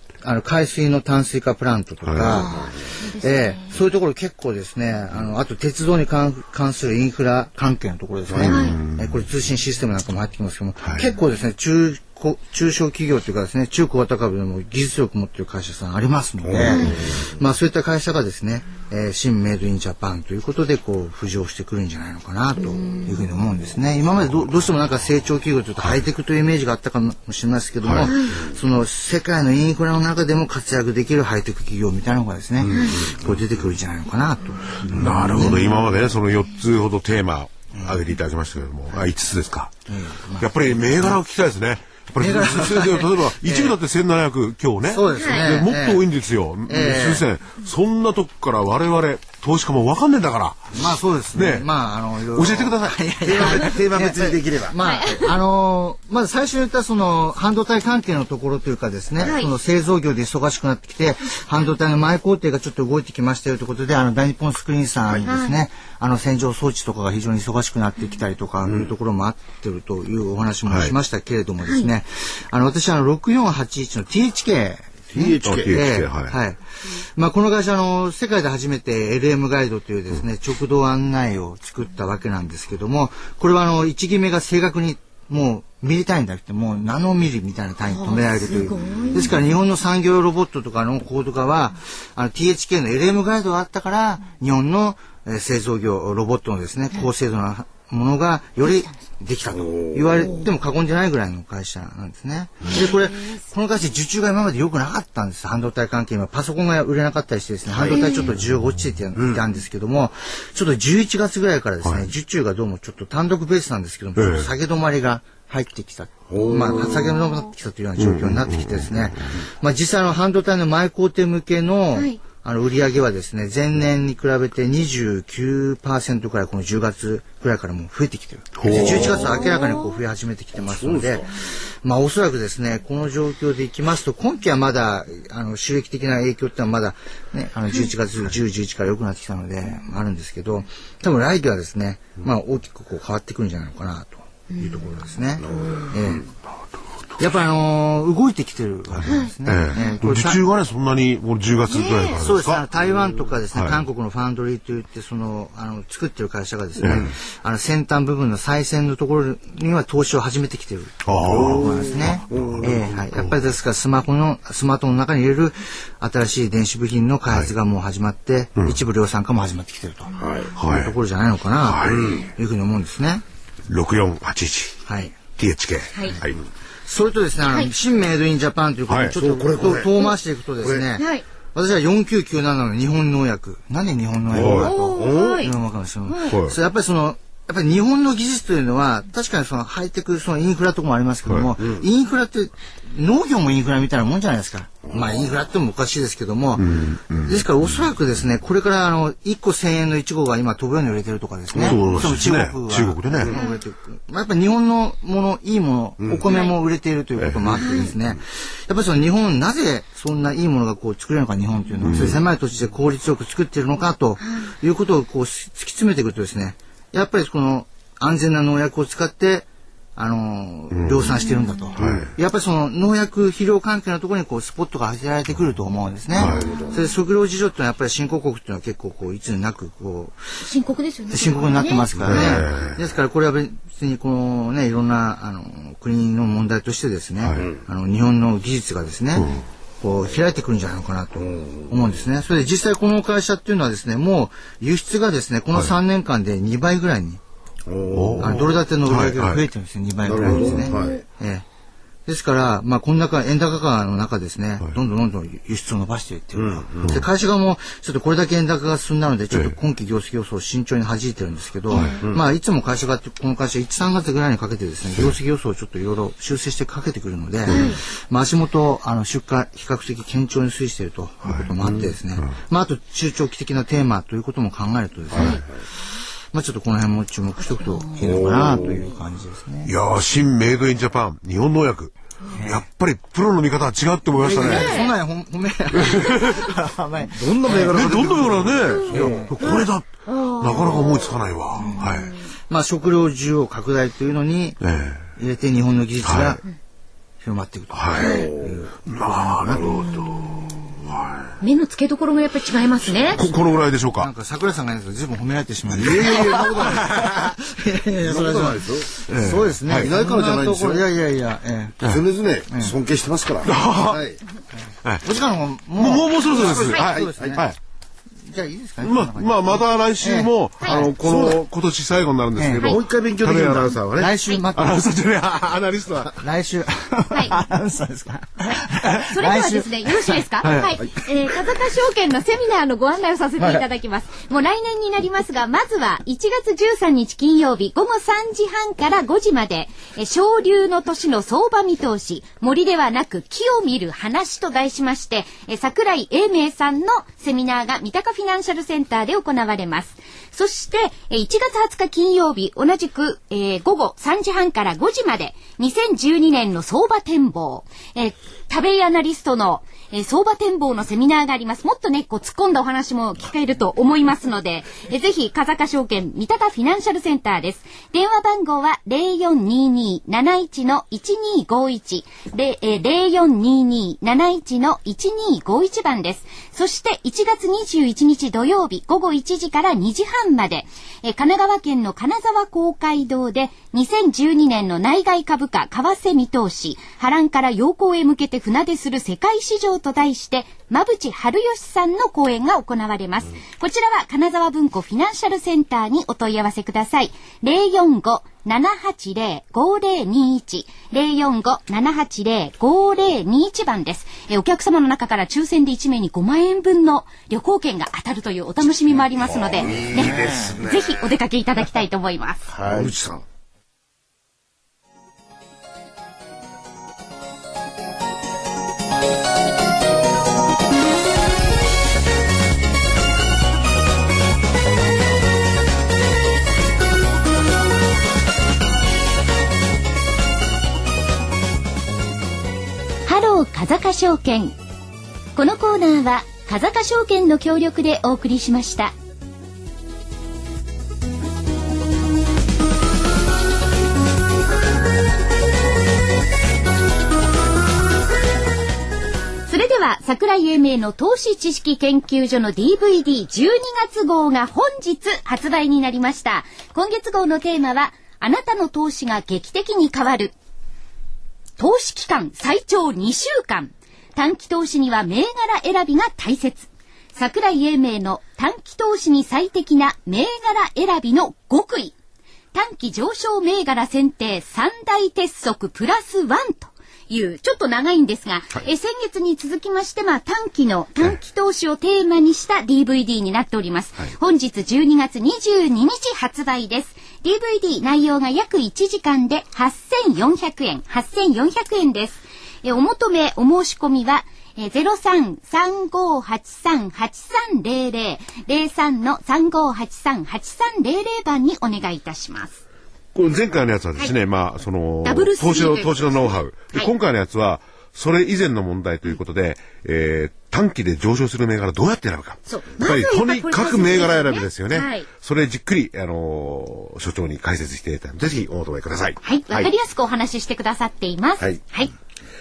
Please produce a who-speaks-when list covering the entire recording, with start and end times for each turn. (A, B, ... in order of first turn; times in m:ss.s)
0:00.2-0:35.7 A
0:02.0-0:02.4 B
0:02.3-0:03.8 C
0:02.4-0:02.9 D
0:08.3-0:08.6 D
0:08.4-0:08.8 C
0:08.4-0:09.2 B
0:10.8-0:11.1 B
0:16.4-0:17.3 D
0:16.6-0:17.0 C
0:22.6-0:23.2 C
0:27.8-0:28.1 B
0:28.0-0:28.4 C
0:32.7-0:33.0 D
0:32.8-0:33.0 C
0:34.9-0:35.3 D
0:34.9-0:39.7 B
0:37.7-0:38.0 A
0:39.9-0:41.1 A
0:40.4-0:50.8 B
0:42.2-0:43.8 A
0:44.9-0:46.1 A
0:45.1-0:45.4 C
0:46.7-0:47.2 A
0:50.7-2:26.2 A
0:51.3-0:51.7 B
0:52.3-0:53.0 B
0:53.2-0:54.8 D
0:54.8-0:55.3 C
0:59.2-0:59.5 C
1:05.2-1:05.6 C
1:10.7-1:11.0 B
1:15.1-1:15.8 D
1:15.4-1:16.4 B
1:27.9-1:29.4 C
1:39.6-1:40.4 D
1:42.7-1:43.4 C
1:47.8-1:48.3 C
1:48.2-1:48.9 B
1:49.2-1:49.4 D
1:54.2-1:54.5 B
1:56.3-1:57.2 D
1:58.0-1:59.4 B
2:08.6-2:09.2 B
2:08.7-2:09.5 D
2:09.3-2:10.0 C
2:10.6-2:11.4 D
2:24.5-2:24.8 C
2:25.4-2:26.1 D
2:25.6-2:25.9 C
2:27.2-2:30.4 A
2:28.9-2:32.6 B
2:29.1-2:30.0 C
2:31.7-2:32.2 C
2:32.1-2:53.2 A
2:33.5-2:33.9 B
2:36.8-2:37.1 B
2:41.0-2:42.7 B
2:41.2-2:43.0 D
2:50.1-2:50.4 C
2:50.2-2:50.6 D
2:50.6-2:50.9 B
2:51.6-2:52.1 B
2:51.8-2:52.3 D
2:53.7-2:54.8 B
2:54.9-2:55.2 A
2:55.4-2:56.4 B
2:55.9-2:56.2 C
2:56.9-3:50.5 A
2:58.9-2:59.2 B
2:59.2-3:00.8 D
3:01.0-3:01.2 C
3:04.3-3:04.7 B
3:04.3-3:05.4 D
3:04.5-3:05.5 C
3:06.1-3:06.4 C
3:06.3-3:06.6 B
3:11.3-3:11.5 B
3:11.6-3:11.8 D
3:14.9-3:15.2 D
3:16.6-3:17.9 B
3:21.5-3:22.2 D
3:21.5-3:23.4 B
3:23.2-3:23.4 D
3:23.3-3:23.6 C
3:26.0-3:26.3 D
3:26.3-3:26.6 C
3:27.2-3:27.7 B
3:27.6-3:27.9 C
3:31.8-3:32.2 B
3:34.2-3:34.5 C
3:40.7-3:41.0 B
3:41.1-3:41.8 C
3:41.8-3:42.1 B
3:46.1-3:46.4 B
3:46.2-3:46.9 C
3:46.3-3:46.8 D
3:50.4-3:52.4 C
3:51.1-4:07.2 A
3:52.0-3:52.8 B
3:57.2-3:57.5 B
4:01.2-4:01.9 D
4:07.7-4:08.5 D
4:07.9-4:09.4 B
4:08.2-4:11.4 A
4:10.1-4:11.0 D
4:10.2-4:10.5 B
4:10.4-4:11.0 C
4:12.1-4:35.5 A
4:16.4-4:17.0 D
4:19.3-4:19.6 B
4:21.7-4:22.0 C
4:21.7-4:22.0 B
4:27.5-4:27.8 B
4:27.5-4:27.8 C
4:31.2-4:32.3 B
4:35.1-4:35.4 D
4:35.1-4:35.4 B
4:35.1-4:35.4 C
4:36.3-4:39.7 A
4:37.4-4:37.9 C
4:38.0-4:38.8 D
4:39.6-4:44.8 B
4:42.3-4:42.6 A
4:44.2-4:49.7 A
4:44.4-4:44.9 C
4:45.7-4:46.5 B
4:47.1-4:49.3 D
4:47.4-4:52.2 B
4:49.4-4:52.2 C
4:51.6-4:51.9 A
4:52.5-4:54.6 A
4:54.6-4:55.1 B
4:55.2-4:56.4 A
4:56.0-4:56.4 B
4:57.2-4:59.8 A
4:57.7-4:58.3 B
4:58.0-4:58.3 C
4:58.0-4:58.7 D
4:58.8-5:01.2 B
4:59.5-4:59.8 D
5:01.4-5:03.2 C
5:03.1-5:04.1 B
5:04.0-5:11.9 A
5:05.7-5:07.0 D
5:06.6-5:07.3 B
5:08.0-5:10.9 D
5:09.1-5:09.9 B
5:11.8-5:14.2 D
5:12.5-5:12.8 A
5:13.4-5:14.0 B
5:14.8-5:15.1 B
5:15.0-5:17.4 A
5:15.8-5:17.6 B
5:16.3-5:17.4 D
5:18.2-5:20.9 A
5:18.8-5:26.2 B
5:20.9-5:21.4 D
5:22.4-5:22.8 A
5:22.6-5:23.8 D
5:23.8-5:25.0 A
5:26.1-5:30.2 A
5:27.1-5:27.4 C
5:28.5-6:52.5 C
5:30.4-5:30.8 B
6:49.2-6:51.1 D
6:49.8-6:50.6 A
6:52.5-6:53.2 D
7:13.1-7:14.6 C
7:15.4-7:18.9 C
7:29.5-7:40.3 C
7:41.6-7:52.0 C
7:52.5-8:22.6 C
8:23.1-8:39.7 B
8:25.0-8:26.9 C
8:32.5-8:35.1 C
8:39.2-8:41.9 C